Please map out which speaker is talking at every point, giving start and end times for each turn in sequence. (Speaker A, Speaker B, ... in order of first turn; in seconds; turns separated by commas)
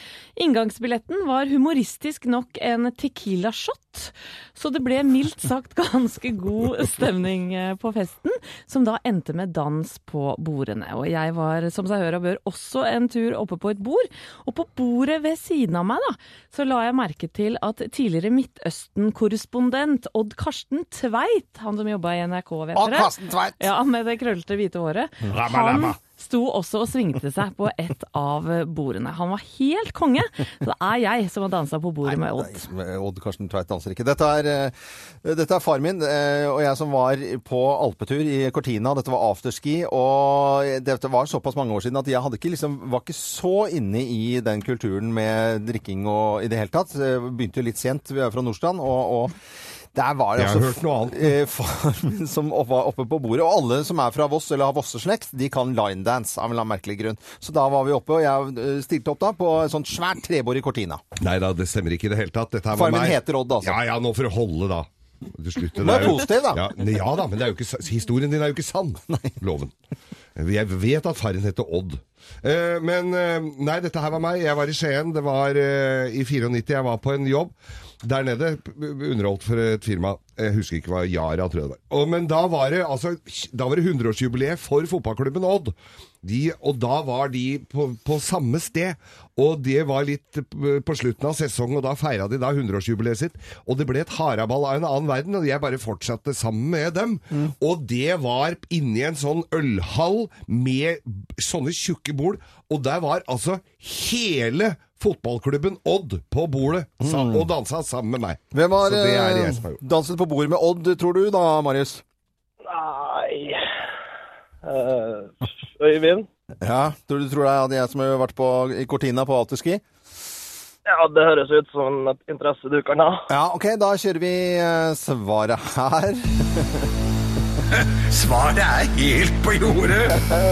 Speaker A: 0.4-32.6, Speaker B: 22.8-23.7, Speaker C: 25.3-26.0, Speaker B: 32.0-49.4, Speaker B: 50.0-61.0, Speaker C: 50.4-51.3, Speaker C: 61.2-69.7, Speaker B: 62.7-63.8, Speaker B: 65.7-66.6, Speaker B: 69.1-69.4, Speaker C: 70.4-109.8, Speaker B: 107.0-107.5, Speaker B: 108.5-112.0, Speaker D: 112.7-113.7, Speaker D: 114.6-116.3, Speaker B: 116.6-119.8, Speaker D: 120.9-123.2, Speaker B: 123.3-126.9, Speaker E: 127.9-130.2